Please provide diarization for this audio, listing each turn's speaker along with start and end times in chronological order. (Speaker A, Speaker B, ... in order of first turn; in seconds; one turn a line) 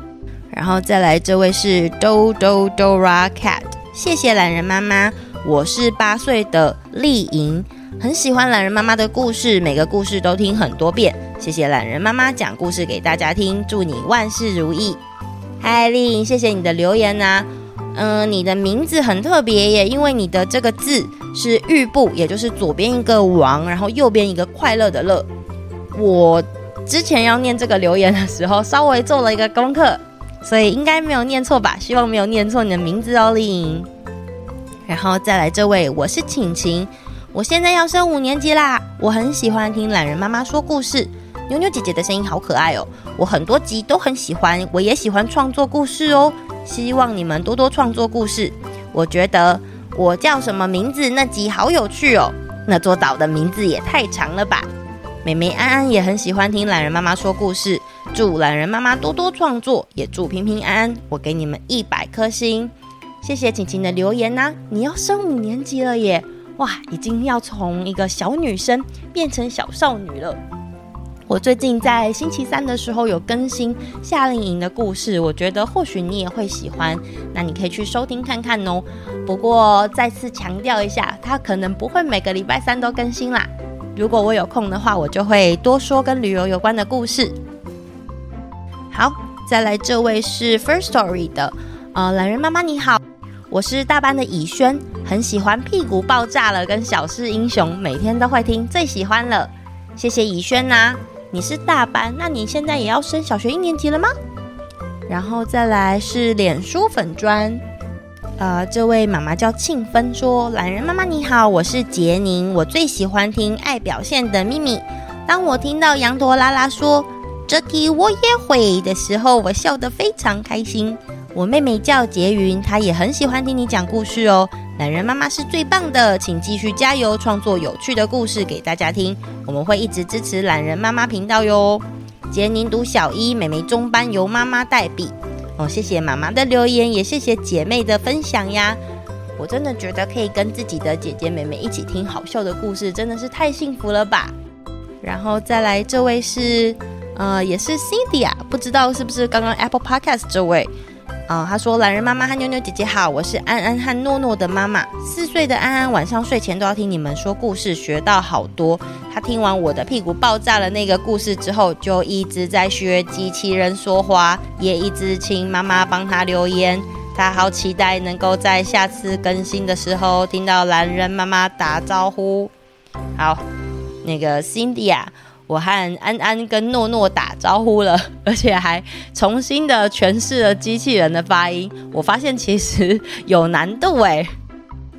Speaker A: 0.5-15.0
Speaker A: 15.6-25.3
Speaker A: 25.9-33.9
Speaker A: 34.9-54.7
Speaker A: 55.2-70.4
Speaker A: 71.3-87.3
Speaker A: 88.9-104.1
Speaker A: 105.1-107.6
Speaker A: 108.4-138.8
Speaker A: 139.4-144.3
Speaker A: 145.0-150.7
Speaker A: 151.3-172.5
Speaker A: 173.2-173.4
Speaker A: 174.0-184.3